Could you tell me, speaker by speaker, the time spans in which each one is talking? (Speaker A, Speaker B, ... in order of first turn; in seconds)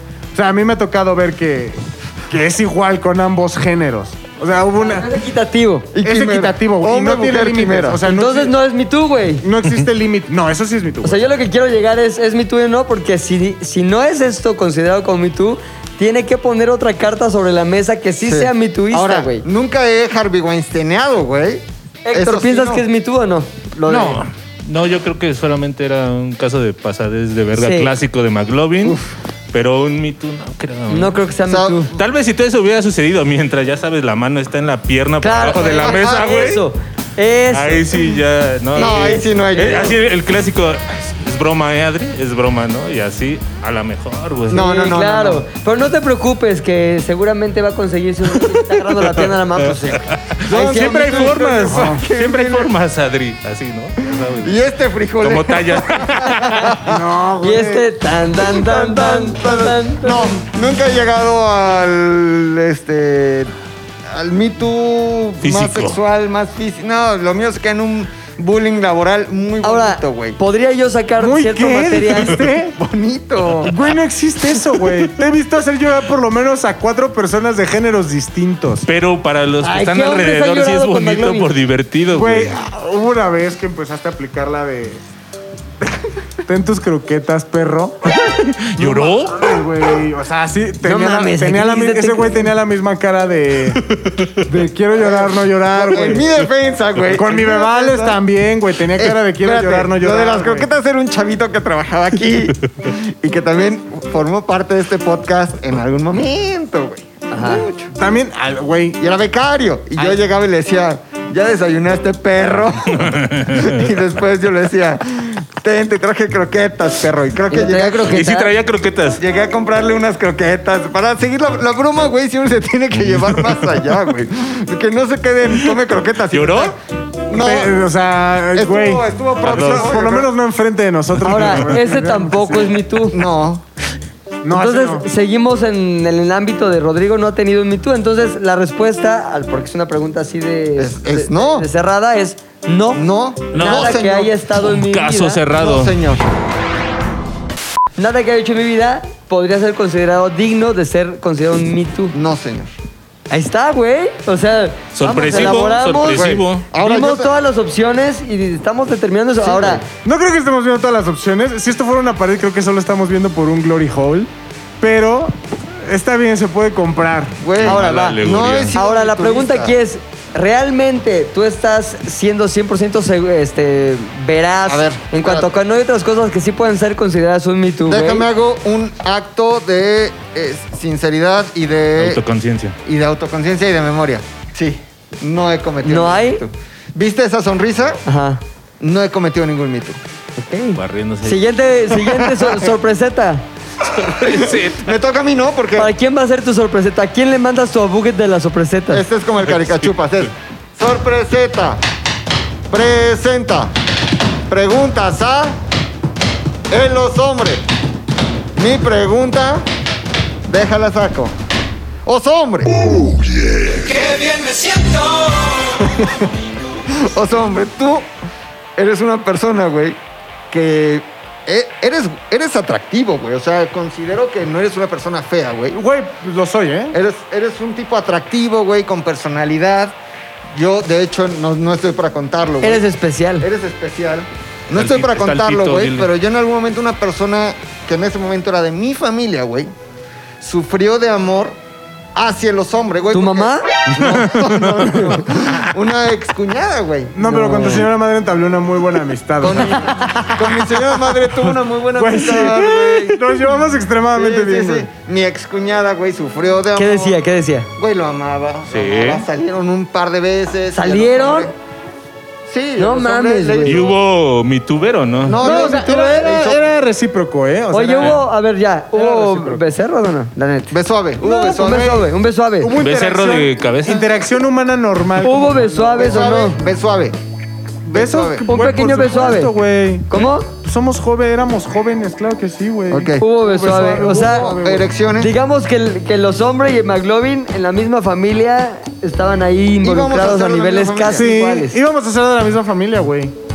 Speaker A: 0.3-5.1, 6.0-8.6, 9.4-11.3, 50.6-52.0, 56.9-57.9, 71.2-72.8, 73.6-78.9, 82.1-85.0, 86.5-88.1, 88.8-93.8, 94.4-96.3, 97.1-100.7, 107.9-109.0, 127.3-132.8, 134.4-135.1, 160.0-164.3, 164.8-167.4, 225.7-227.0, 247.1-254.9, 265.4-268.2, 268.9-269.6, 271.2-272.0, 272.6-276.0, 277.9-284.9, 291.1-293.3
Speaker B: 4.8-5.9, 8.0-9.5, 11.0-19.4, 22.1-24.2, 27.6-27.9, 30.9-31.9, 35.2-38.1, 38.8-39.9, 44.5-51.1, 57.4-60.3, 69.6-72.4, 79.6-81.5, 90.8-92.5, 107.3-107.7, 117.5-118.5, 131.2-133.2, 134.5-145.4, 148.0-152.2, 153.3-159.8, 167.6-168.2, 168.7-178.3, 185.8-186.4, 188.1-188.4, 190.4-193.4, 195.8-199.0, 232.6-233.5, 243.1-243.7, 247.2-247.9, 256.8-257.7, 260.7-261.5, 262.8-263.9, 267.7-270.8, 271.4-272.7, 275.2-276.6, 278.5-279.5, 280.1-280.5, 283.2-284.6, 285.2-291.8
Speaker C: 5.9-8.0, 18.2-22.9, 28.8-29.1, 31.5-31.9, 35.8-36.4, 38.8-40.0, 44.5-45.5, 50.5-52.7, 54.0-57.0, 58.4-63.5, 64.1-70.4, 72.8-73.8, 95.0-98.2, 99.0-107.9, 109.0-118.2, 119.2-126.8, 127.3-127.8, 128.5-130.3, 133.1-133.7, 140.8-141.7, 142.9-144.3, 145.5-146.2, 152.1-152.7, 155.3-157.3, 159.4-159.8, 167.4-169.8, 174.7-175.5, 177.9-182.2, 182.8-188.0, 188.8-190.0, 192.2-192.5, 194.1-195.9, 198.9-201.8, 202.7-203.8, 204.5-205.6, 206.7-207.7, 208.6-209.7, 210.5-211.3, 212.0-216.2, 216.9-218.1, 218.8-220.0, 220.5-225.8, 226.9-230.0, 230.5-232.8, 233.4-239.7, 240.4-241.6, 242.2-247.2, 249.4-253.3, 254.1-257.2, 257.8-261.5, 262.5-264.0, 265.2-266.6, 270.7-272.1, 275.9-277.2, 277.9-278.4, 282.9-283.2, 283.9-285.3, 289.8-291.3
Speaker D: 23.9-29.0, 29.5-31.2, 31.9-36.6, 37.5-44.6, 49.8-54.7, 55.2-56.8, 65.4-66.0, 78.9-82.5, 88.1-89.5, 93.9-94.4, 112.9-113.8, 118.1-119.2, 123.0-123.7, 126.3-126.7, 129.4-129.9, 131.3-131.6, 143.5-144.0, 144.6-145.9, 154.9-156.7, 167.6-168.8, 182.0-182.8, 190.8-191.4, 193.9-194.9, 199.5-199.9, 234.7-236.1, 244.0-244.8, 258.7-259.2, 263.6-265.6, 272.8-274.1